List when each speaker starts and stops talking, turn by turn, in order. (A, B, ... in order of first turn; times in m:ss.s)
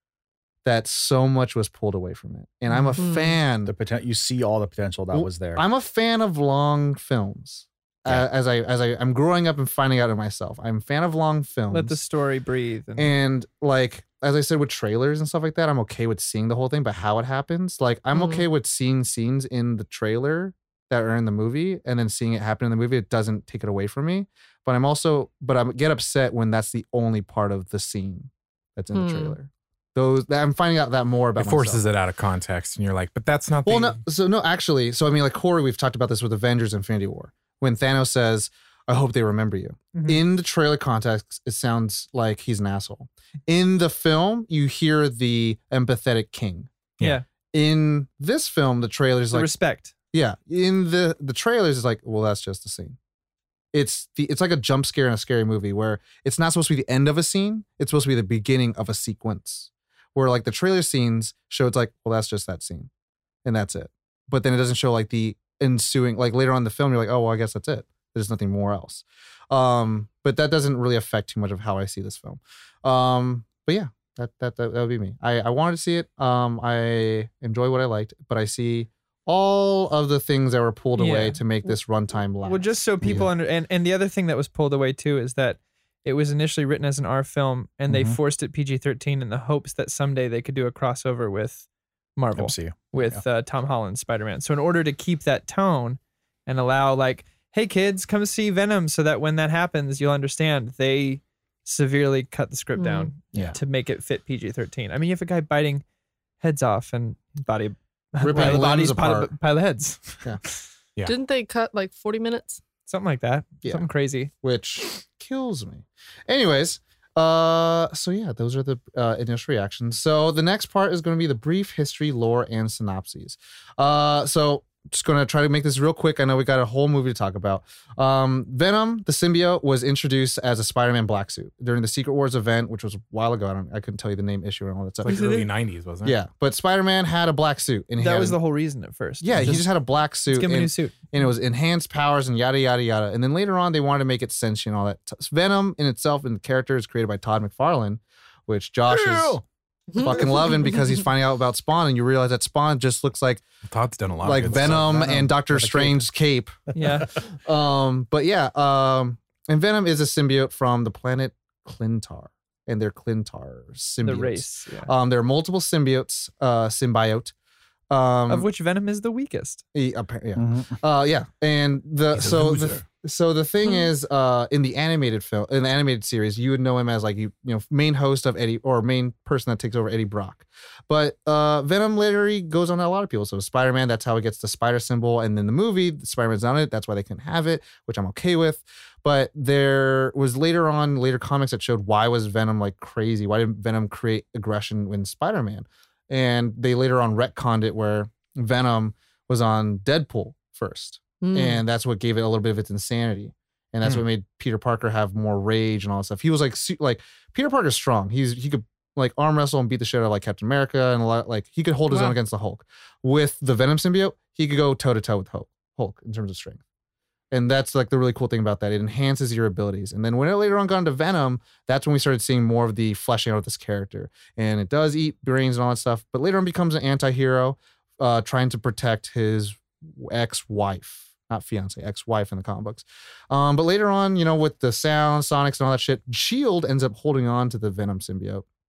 0:00.6-0:03.7 A
0:03.0-0:03.4 B
0:03.6-0:05.6 C
0:05.1-0:12.0 A
0:11.7-0:13.1 D
0:13.0-0:31.8 A
0:18.1-0:18.4 B
0:28.9-0:29.3 B
0:31.4-0:34.0 E
0:33.6-0:46.7 A
0:39.9-0:40.2 D
0:47.0-0:47.2 D
0:47.5-0:49.5 A
0:49.3-0:49.9 D
0:50.1-0:53.0 A
0:53.7-1:02.9 A
1:03.4-1:23.2 A
1:21.0-1:21.4 D
1:22.4-1:45.8 D
1:27.9-1:28.2 C
1:32.4-1:33.2 C
1:42.8-1:43.1 B
1:46.4-1:50.6 D
1:48.2-1:49.3 A
1:51.0-1:52.6 B
1:52.9-1:54.3 D
1:54.4-2:15.4 A
2:15.0-2:16.2 E
2:15.1-2:15.4 D
2:16.0-2:18.4 A
2:18.0-2:19.6 D
2:19.2-2:29.4 A
2:20.3-2:21.0 D
2:28.9-2:29.4 E
2:29.9-2:33.4 A
2:33.6-2:35.0 E
2:34.2-2:36.6 A
2:34.5-2:36.0 C
2:36.7-2:37.1 D
2:37.3-2:47.3 A
2:44.0-2:44.9 D
2:47.9-2:48.5 A
2:48.3-2:49.6 D
2:49.7-3:36.6 A
2:50.4-2:50.8 C
2:52.3-2:52.8 C
3:21.2-3:21.6 B
3:37.3-3:58.4 A